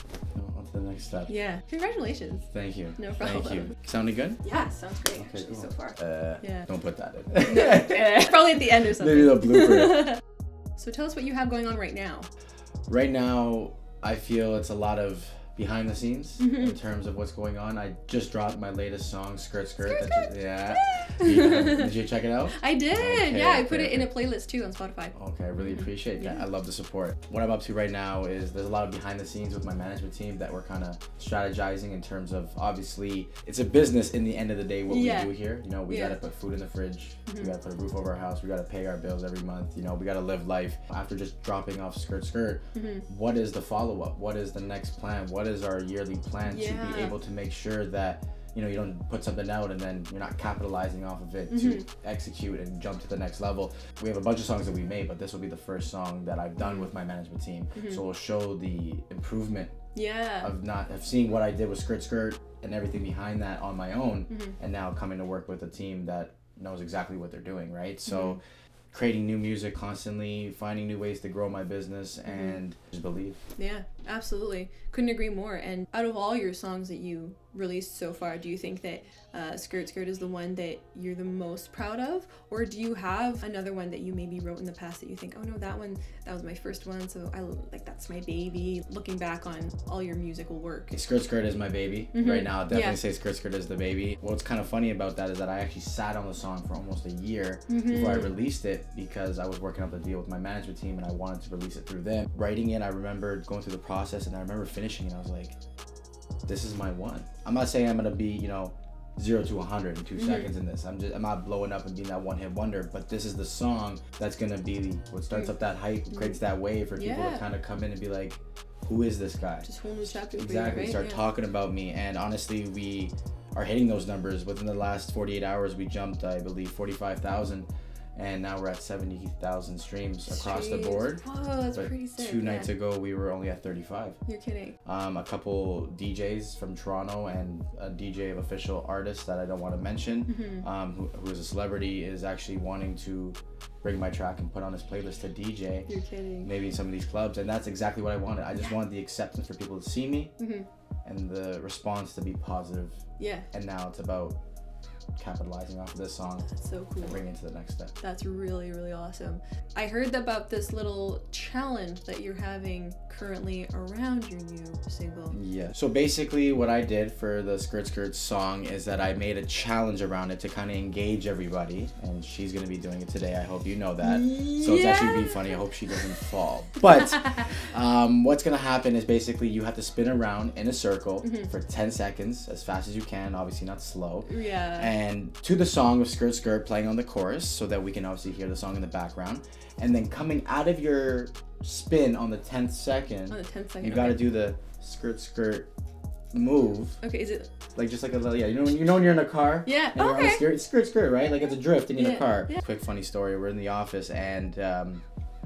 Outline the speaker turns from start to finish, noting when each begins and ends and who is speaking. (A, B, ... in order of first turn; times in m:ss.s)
0:00.3-0:01.3 A
0:01.3-0:02.4 B
0:02.5-0:04.4 A
0:03.0-0:03.8 B
0:04.4-0:06.7 B
0:05.2-0:10.2 A
0:07.4-0:10.2 B
0:10.8-0:12.3 B
0:12.9-0:24.1 A
0:16.4-0:16.8 B
0:19.9-0:21.9 B
0:22.5-0:26.4 B
0:25.1-0:59.7 A
0:34.9-0:36.2 B
0:37.3-0:37.5 B
0:42.7-0:43.0 B
0:46.4-0:47.1 B
0:51.5-0:51.8 B
0:56.6-0:56.9 B
0:57.7-0:58.0 B
0:59.9-1:00.5 B
1:00.4-1:08.4 A
1:04.3-1:04.6 B
1:08.0-1:08.4 B
1:08.9-1:13.4 A
1:12.2-1:12.6 B
1:13.6-1:30.9 B
1:30.9-1:45.6 A
1:32.1-1:33.0 B
1:37.7-1:38.4 B
1:46.5-2:11.2 A
1:50.2-1:50.5 B
1:56.1-1:56.4 B
1:56.9-1:57.4 B
1:59.6-2:01.2 B
2:10.3-2:12.7 B
2:11.7-2:14.2 A
2:14.3-2:14.8 B
2:14.8-2:25.9 A
2:20.3-2:20.6 B
2:25.9-2:26.5 B
2:26.4-2:30.3 A
2:30.4-2:30.7 B
2:31.0-2:33.0 A
2:33.2-2:33.5 B
2:33.5-2:34.4 A
2:35.2-2:36.5 A
2:36.4-2:37.2 B
2:37.0-2:37.9 A
2:38.0-2:45.4 B
2:45.3-3:15.7 A
2:54.0-2:55.6 B
3:01.2-3:01.5 B
3:04.2-3:04.9 B
3:13.3-3:14.3 B
3:16.3-3:17.0 A
3:17.0-3:17.5 B
3:17.7-3:25.0 A
3:19.6-3:20.5 B
3:21.9-3:22.6 B